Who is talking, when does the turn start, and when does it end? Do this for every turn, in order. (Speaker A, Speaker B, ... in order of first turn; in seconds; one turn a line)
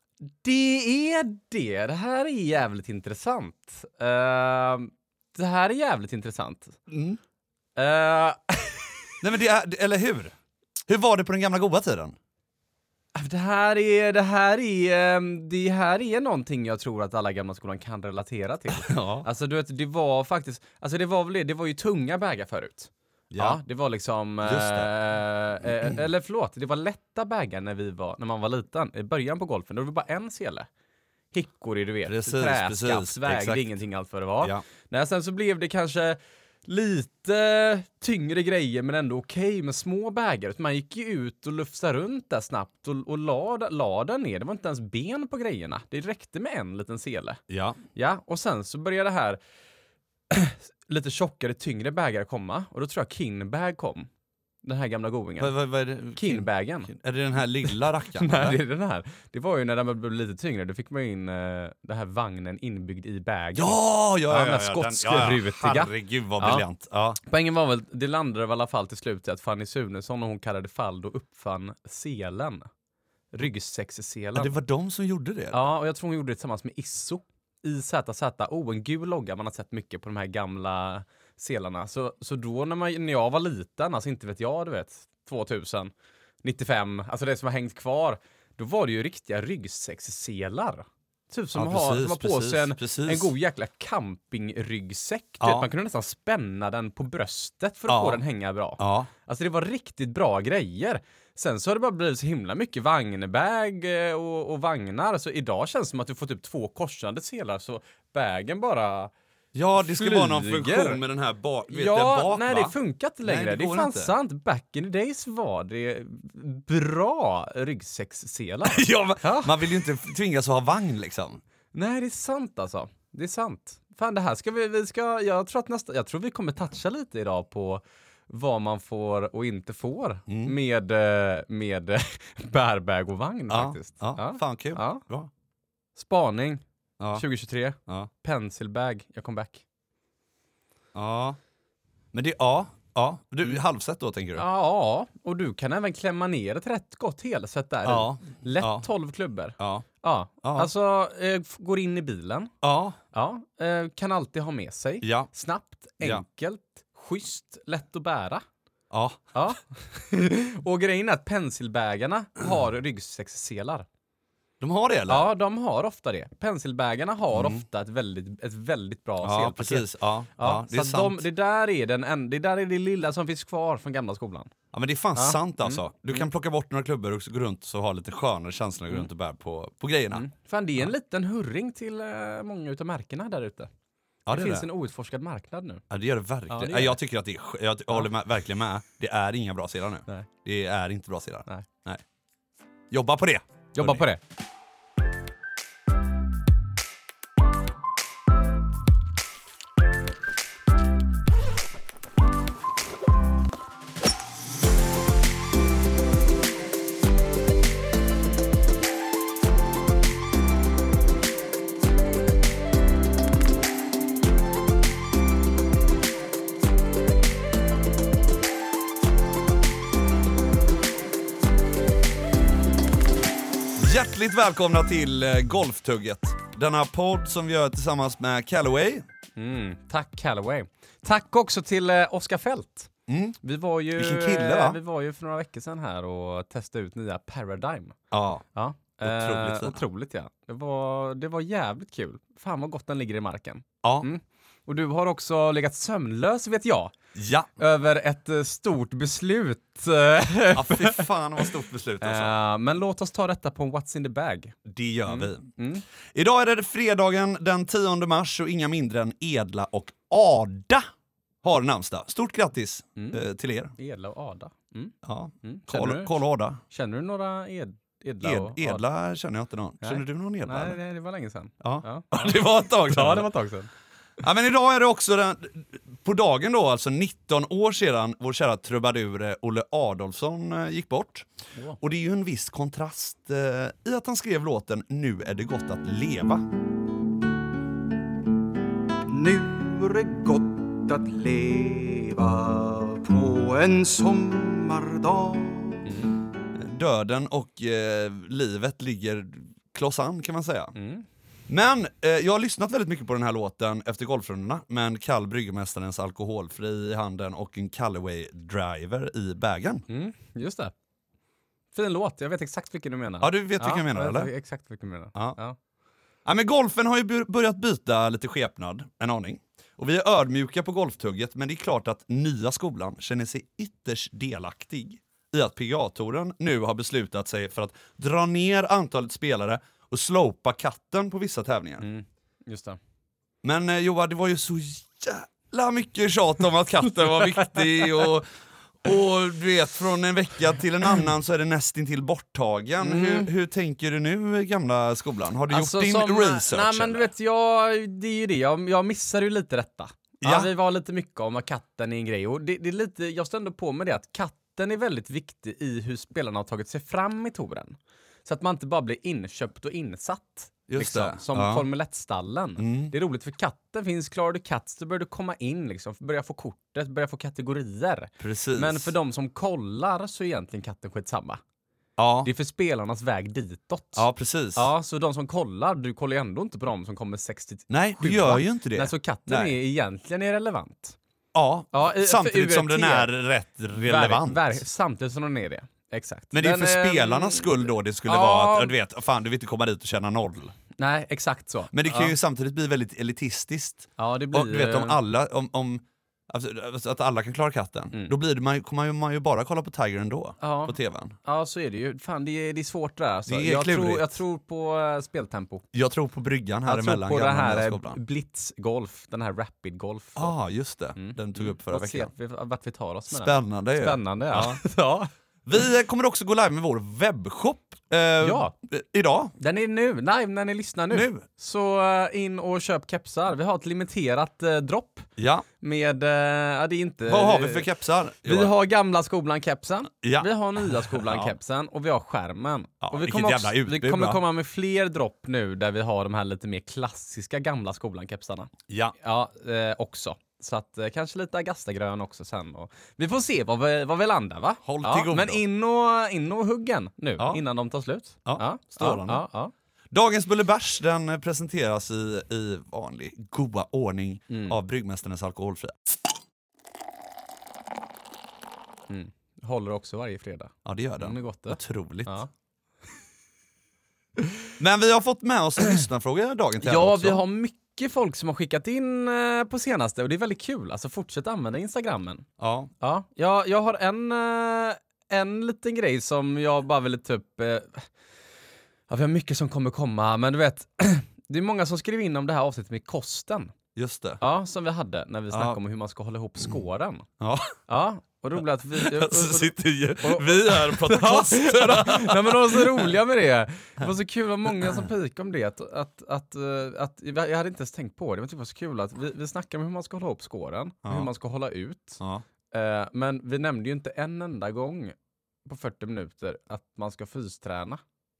Speaker A: 0.2-6.8
Speaker B: 6.9-7.2
Speaker A: 7.8-9.1
Speaker B: 9.2-10.3
Speaker B: 10.9-12.2
Speaker A: 13.1-30.7
Speaker B: 18.7-19.3
Speaker B: 23.3-23.6
Speaker B: 24.4-24.9
Speaker A: 31.3-47.4
Speaker B: 32.0-33.7
Speaker B: 47.5-47.8
Speaker A: 47.9-49.4
Speaker A: 50.3-54.1
Speaker A: 54.6-55.5
Speaker B: 55.4-58.6
Speaker A: 56.1-56.9
Speaker A: 57.6-66.7
Speaker B: 63.5-67.2
Speaker A: 67.2-72.7
Speaker A: 73.3-74.5
Speaker B: 74.3-75.6
Speaker A: 75.5-85.9
Speaker A: 86.4-109.1
Speaker B: 91.5-93.3
Speaker B: 95.4-95.7
Speaker B: 97.9-98.2
Speaker B: 98.8-99.1
Speaker B: 109.5-114.1
Speaker A: 109.8-111.0
Speaker A: 111.7-119.6
Speaker B: 118.6-121.4
Speaker A: 121.7-135.0
Speaker B: 130.3-130.5
Speaker B: 133.5-135.3
Speaker A: 135.9-136.6
Speaker A: 137.2-139.6
Speaker B: 140.9-141.4
Speaker B: 142.1-144.4
Speaker A: 144.3-152.5
Speaker B: 147.8-148.9
Speaker B: 149.6-149.8
Speaker B: 150.4-150.7
Speaker B: 152.6-153.0
Speaker A: 153.1-158.4
Speaker B: 155.0-155.3
Speaker B: 158.9-159.2
Speaker A: 159.3-163.8
Speaker B: 164.6-165.3
Speaker A: 165.1-169.8
Speaker B: 167.3-167.6
Speaker B: 169.2-171.2
Speaker A: 170.4-174.5
Speaker B: 174.7-180.3
Speaker A: 175.2-176.2
Speaker A: 180.1-183.7
Speaker A: 184.3-185.8
Speaker B: 184.3-184.7
Speaker B: 185.9-192.0
Speaker A: 186.5-187.0
Speaker B: 192.9-194.1
Speaker A: 193.7-194.2
Speaker B: 223.8-229.1
Speaker A: 229.3-232.9
Speaker B: 233.1-233.4
Speaker A: 233.4-237.9
Speaker B: 233.9-234.8
Speaker B: 238.1-238.4
Speaker A: 238.5-246.9
Speaker B: 239.0-239.8
Speaker B: 243.8-244.1
Speaker B: 247.1-247.5
Speaker A: 247.6-251.4
Speaker B: 250.5-252.3
Speaker A: 252.0-254.5
Speaker B: 254.6-255.5
Speaker A: 255.1-255.8
Speaker B: 256.1-260.9
Speaker B: 261.4-263.7
Speaker A: 263.8-266.1
Speaker B: 265.0-266.6
Speaker A: 266.7-268.8
Speaker B: 268.2-270.8
Speaker A: 269.8-273.7
Speaker B: 271.6-273.3
Speaker B: 274.2-286.4
Speaker C: 289.1-295.8
Speaker A: 295.8-296.2
Speaker B: 296.5-300.7
Speaker A: 300.7-301.0
Speaker B: 301.5-309.9
Speaker A: 309.9-310.7
Speaker A: 311.7-315.6
Speaker B: 313.2-314.3
Speaker B: 316.2-331.9
Speaker A: 331.8-332.8
Speaker B: 333.4-347.1
Speaker A: 342.8-343.3
Speaker A: 345.5-371.4
Speaker B: 350.2-350.5
Speaker B: 360.7-361.7
Speaker B: 362.6-362.9
Speaker B: 368.2-368.9
Speaker B: 372.0-372.3
Speaker A: 372.2-381.0
Speaker B: 373.9-374.7
Speaker B: 377.7-379.6
Speaker B: 381.3-384.6
Speaker A: 381.7-383.1
Speaker A: 383.7-388.7
Speaker B: 386.3-390.5
Speaker A: 390.8-392.1
Speaker B: 391.7-401.1
Speaker A: 394.0-395.0
Speaker A: 400.4-405.6
Speaker B: 403.3-404.1
Speaker B: 405.7-408.0
Speaker A: 406.6-410.3
Speaker B: 410.1-412.1
Speaker A: 410.9-415.1
Speaker B: 413.1-414.6
Speaker B: 415.4-419.3
Speaker A: 418.2-418.5
Speaker A: 419.4-427.6
Speaker B: 420.9-421.2
Speaker B: 425.2-425.4
Speaker B: 427.1-428.5
Speaker A: 428.2-449.5
Speaker B: 430.0-431.3
Speaker B: 432.8-434.2
Speaker B: 438.7-438.9
Speaker B: 444.6-445.4
Speaker B: 448.2-449.2
Speaker B: 449.9-455.8
Speaker A: 454.3-454.6
Speaker A: 458.9-462.3
Speaker B: 460.6-462.3
Speaker B: 464.6-467.2
Speaker A: 466.6-472.3
Speaker B: 472.4-472.7
Speaker A: 472.8-477.9
Speaker A: 478.9-483.5
Speaker B: 483.7-484.2
Speaker A: 484.2-487.1
Speaker B: 485.3-485.6
Speaker B: 487.2-487.6
Speaker A: 487.7-502.0
Speaker B: 488.7-492.9
Speaker B: 502.0-502.2
Speaker A: 502.5-507.8